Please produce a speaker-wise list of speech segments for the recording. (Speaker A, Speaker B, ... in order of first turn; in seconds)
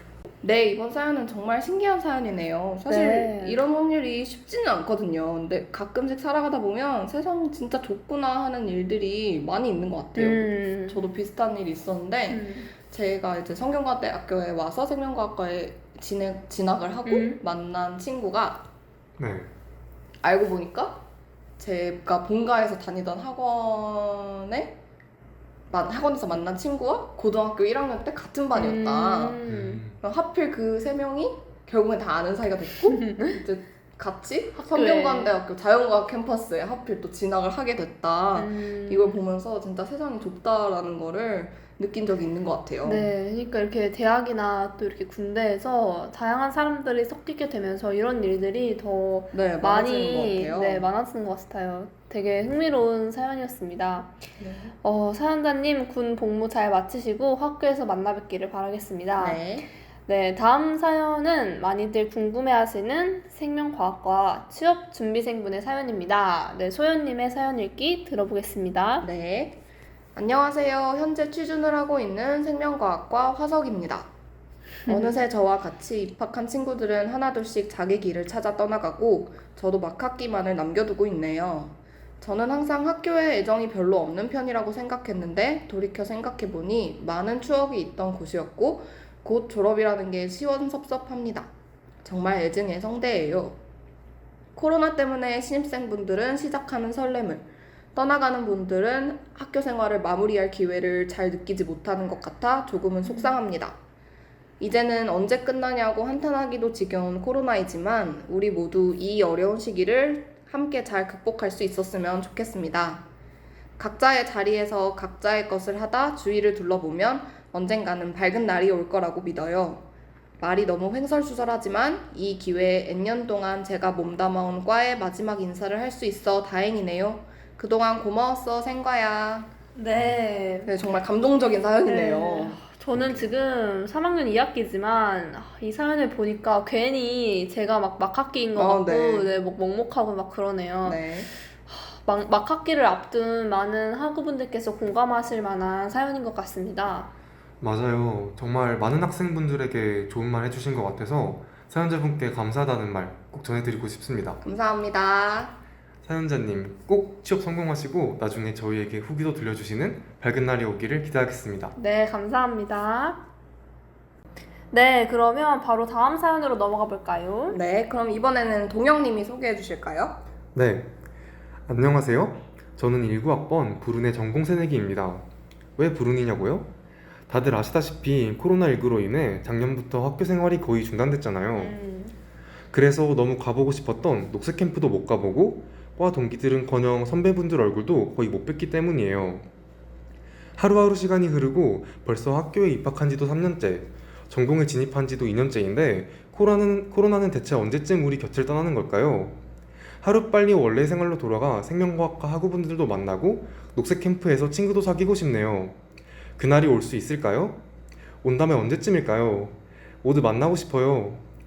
Speaker A: 0.4-18.6, 20.2-21.0, 21.6-24.8, 25.7-29.4, 29.9-43.1, 49.3-50.9, 54.4-54.7, 59.2-59.7, 69.0-69.6, 70.1-74.1, 74.9-91.5, 92.0-93.6, 94.6-103.8, 104.6-113.0, 113.8-119.8, 120.4-129.5, 130.7-133.3, 138.6-139.3, 140.8-141.3, 154.4-155.5, 167.5-170.2
Speaker B: 2.9-3.6, 10.1-11.0, 12.3-12.7, 17.1-17.4, 28.5-29.8, 32.9-33.3, 34.6-35.3, 38.3-39.2, 42.8-54.1, 54.8-59.4, 60.1-69.1, 74.8-75.2, 103.0-103.3, 129.8-130.7, 131.8-147.1, 161.8-163.2, 164.7-167.6, 181.5-182.1
Speaker C: 19.2-19.5, 29.5-29.9, 147.6-154.4, 156.0-161.8, 170.5-170.9, 171.7-175.2, 175.8-176.7, 177.3-181.8, 182.7-189.4, 190.6-199.4, 200.0-205.8, 206.4-207.6, 208.2-211.2